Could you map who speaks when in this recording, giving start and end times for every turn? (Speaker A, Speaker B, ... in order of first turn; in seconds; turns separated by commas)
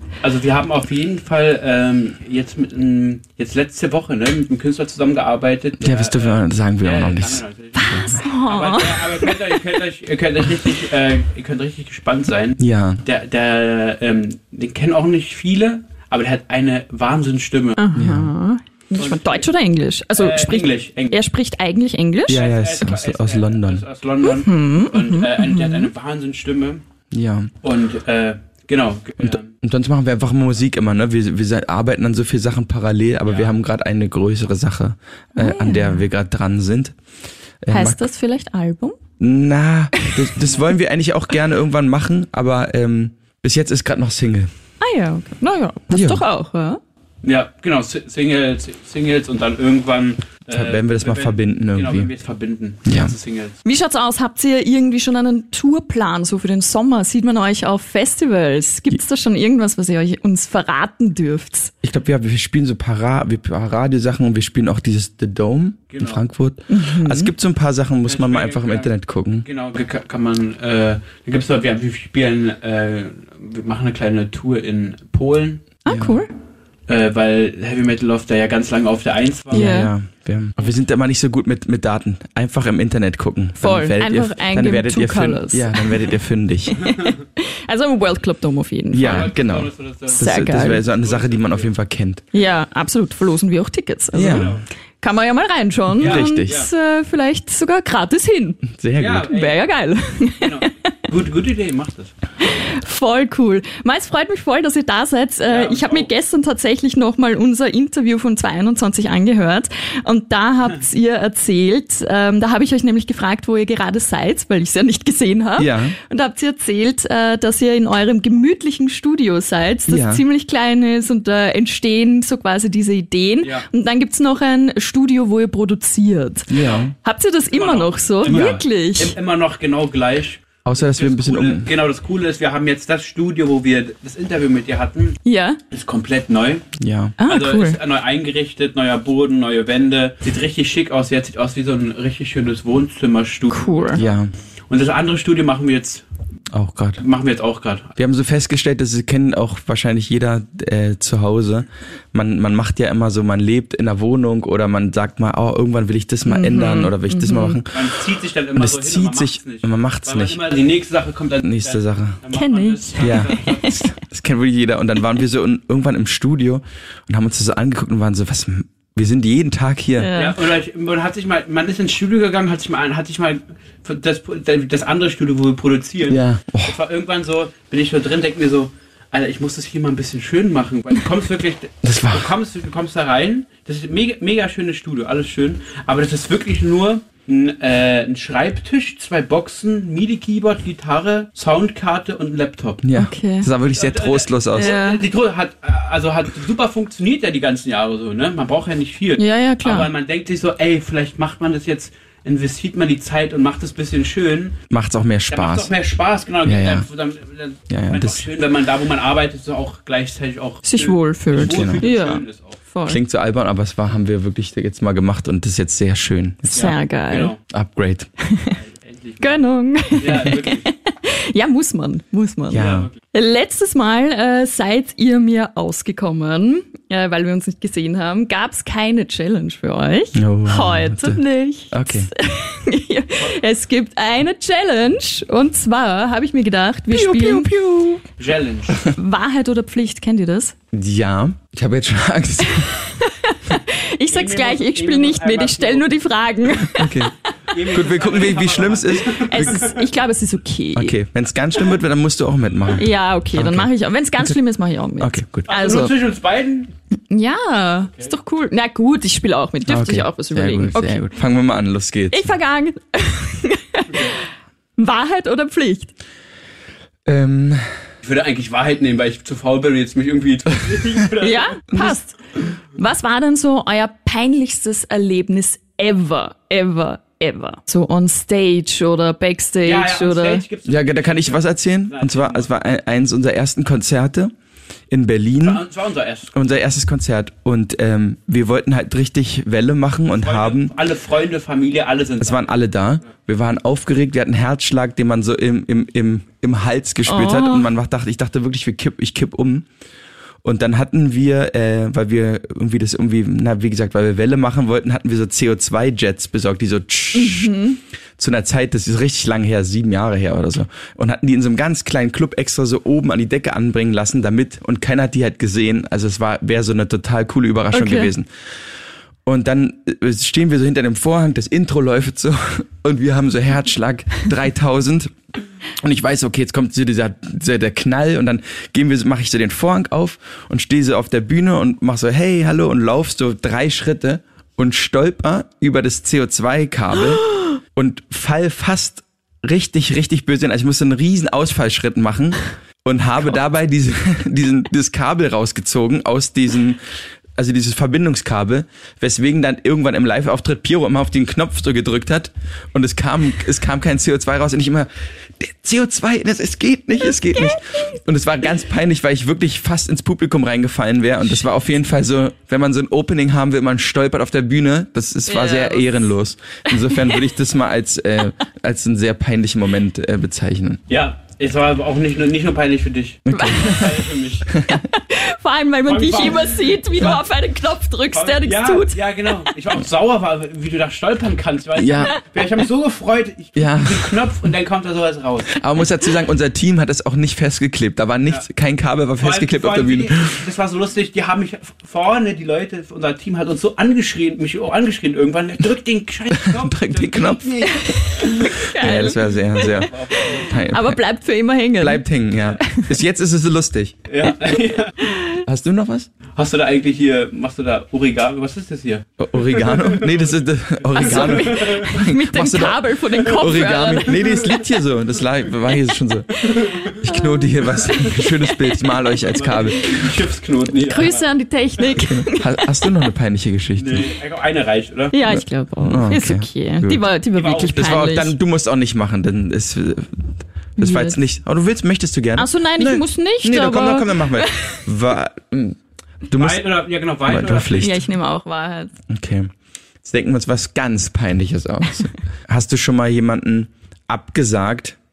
Speaker A: 0.2-17.8, Speaker B: 5.8-8.2, Speaker C: 7.7-9.5, Speaker B: 12.6-13.0, Speaker C: 17.8-22.4, Speaker B: 17.9-18.3, Speaker A: 19.0-19.5, Speaker A: 20.2-21.2, Speaker B: 22.3-23.8, Speaker A: 22.3-26.8, Speaker C: 24.2-25.9, Speaker B: 27.1-27.5, Speaker A: 27.6-29.5, Speaker B: 29.2-37.0, Speaker A: 33.2-33.5, Speaker C: 35.3-36.0, Speaker B: 37.6-38.0, Speaker C: 37.7-39.0, Speaker B: 39.2-44.5, Speaker C: 44.8-46.8, Speaker B: 45.9-46.2, Speaker A: 47.2-53.6, Speaker B: 50.5-52.1, Speaker B: 52.9-53.1, Speaker C: 53.6-61.7, Speaker B: 61.8-69.5, Speaker A: 65.9-66.2, Speaker C: 66.7-67.3, Speaker A: 68.0-75.7, Speaker C: 75.8-76.3, Speaker B: 75.9-76.2, Speaker A: 76.9-79.8, Speaker B: 79.5-86.9, Speaker C: 79.5-79.9, Speaker C: 83.6-86.0, Speaker C: 86.7-89.3, Speaker B: 88.9-92.2, Speaker A: 89.0-91.7, Speaker C: 90.2-90.8, Speaker C: 92.3-98.6, Speaker B: 94.1-94.6, Speaker A: 94.1-94.6, Speaker B: 96.0-96.7, Speaker A: 96.0-96.7, Speaker B: 98.7-99.3, Speaker A: 99.0-99.6, Speaker C: 99.3-100.7, Speaker A: 100.4-102.1, Speaker C: 102.4-129.1, Speaker A: 105.5-106.1, Speaker B: 115.6-116.0, Speaker B: 119.9-120.2, Speaker B: 126.5-126.9, Speaker A: 126.5-126.9, Speaker A: 127.5-135.2, Speaker B: 128.2-128.6, Speaker B: 130.6-131.7, Speaker C: 135.2-135.6, Speaker A: 135.7-136.7, Speaker B: 136.8-137.2, Speaker C: 137.2-137.8, Speaker A: 137.2-144.2, Speaker C: 143.5-144.0, Speaker B: 143.9-144.3, Speaker A: 144.7-146.1, Speaker B: 146.5-147.0, Speaker A: 147.0-147.9, Speaker B: 148.0-157.9, Speaker C: 156.2-157.6, Speaker A: 157.7-163.8, Speaker B: 158.6-160.4, Speaker B: 161.4-162.2, Speaker C: 162.3-163.9, Speaker B: 163.0-170.1, Speaker C: 170.0-170.4, Speaker A: 170.1-192.8, Speaker B: 176.1-176.8, Speaker B: 181.8-182.3, Speaker B: 192.8-194.8, Speaker C: 192.9-193.5, Speaker A: 193.7-204.6, Speaker C: 194.5-195.0, Speaker C: 199.2-199.9, Speaker B: 204.7-205.7, Speaker A: 205.3-212.6, Speaker B: 206.4-206.8, Speaker B: 207.7-208.2, Speaker C: 210.6-213.0, Speaker B: 211.3-211.8, Speaker B: 212.8-216.7, Speaker C: 216.5-217.3, Speaker A: 216.5-217.4, Speaker B: 217.5-218.1, Speaker C: 218.2-218.6, Speaker A: 218.5-220.7, Speaker C: 219.2-237.5, Speaker B: 222.5-222.9, Speaker A: 222.5-222.9, Speaker B: 230.1-232.1, Speaker B: 236.9-238.0, Speaker A: 238.2-238.8, Speaker C: 238.8-240.5, Speaker B: 240.7-242.8, Speaker C: 242.5-247.1, Speaker A: 244.1-246.0, Speaker B: 246.7-247.1, Speaker A: 247.5-249.8, Speaker B: 247.7-249.7, Speaker C: 249.2-251.0, Speaker B: 250.7-254.3, Speaker C: 252.8-255.9, Speaker B: 255.0-255.5, Speaker A: 255.5-256.7, Speaker C: 257.1-261.1, Speaker B: 259.6-262.3, Speaker C: 262.1-264.2, Speaker C: 264.8-265.9, Speaker B: 267.0-267.6, Speaker A: 268.0-271.8, Speaker C: 271.2-272.2, Speaker C: 272.7-280.4, Speaker A: 279.6-282.5, Speaker B: 280.6-284.3, Speaker B: 284.9-285.6, Speaker A: 285.4-286.3, Speaker B: 286.3-290.7, Speaker A: 290.1-292.5, Speaker B: 292.2-299.6, Speaker C: 297.1-297.7, Speaker B: 300.4-307.6, Speaker C: 307.1-307.8, Speaker B: 308.2-318.3, Speaker C: 317.7-318.1, Speaker B: 319.2-325.1, Speaker B: 325.8-346.8, Speaker B: 347.4-370.8, Speaker C: 365.3-365.9, Speaker C: 366.8-367.2, Speaker A: 370.9-374.5, Speaker B: 373.2-374.0, Speaker C: 373.3-373.9, Speaker B: 374.5-374.8, Speaker C: 374.6-379.2, Speaker A: 375.9-377.2, Speaker A: 378.1-385.6, Speaker B: 381.8-382.1, Speaker B: 383.6-384.1, Speaker B: 385.5-390.4, Speaker A: 389.2-398.5, Speaker B: 396.4-401.0, Speaker C: 397.7-402.0, Speaker A: 399.5-400.6, Speaker B: 401.8-404.0, Speaker C: 402.6-402.9, Speaker A: 404.1-405.1, Speaker C: 405.0-405.4, Speaker B: 405.4-406.1, Speaker A: 406.4-411.9, Speaker B: 409.2-420.0, Speaker C: 411.0-414.5, Speaker A: 413.4-414.3, Speaker A: 416.3-417.0, Speaker C: 417.0-418.3, Speaker A: 419.2-421.2, Speaker C: 420.8-422.9, Speaker B: 422.0-424.1, Speaker A: 423.8-425.1, Speaker C: 425.1-428.3, Speaker B: 425.3-427.1, Speaker A: 427.3-427.9, Speaker B: 427.7-436.7, Speaker C: 430.8-431.2, Speaker C: 432.4-434.8, Speaker A: 436.3-438.0, Speaker B: 437.2-438.0, Speaker C: 437.8-438.9, Speaker B: 439.1-445.0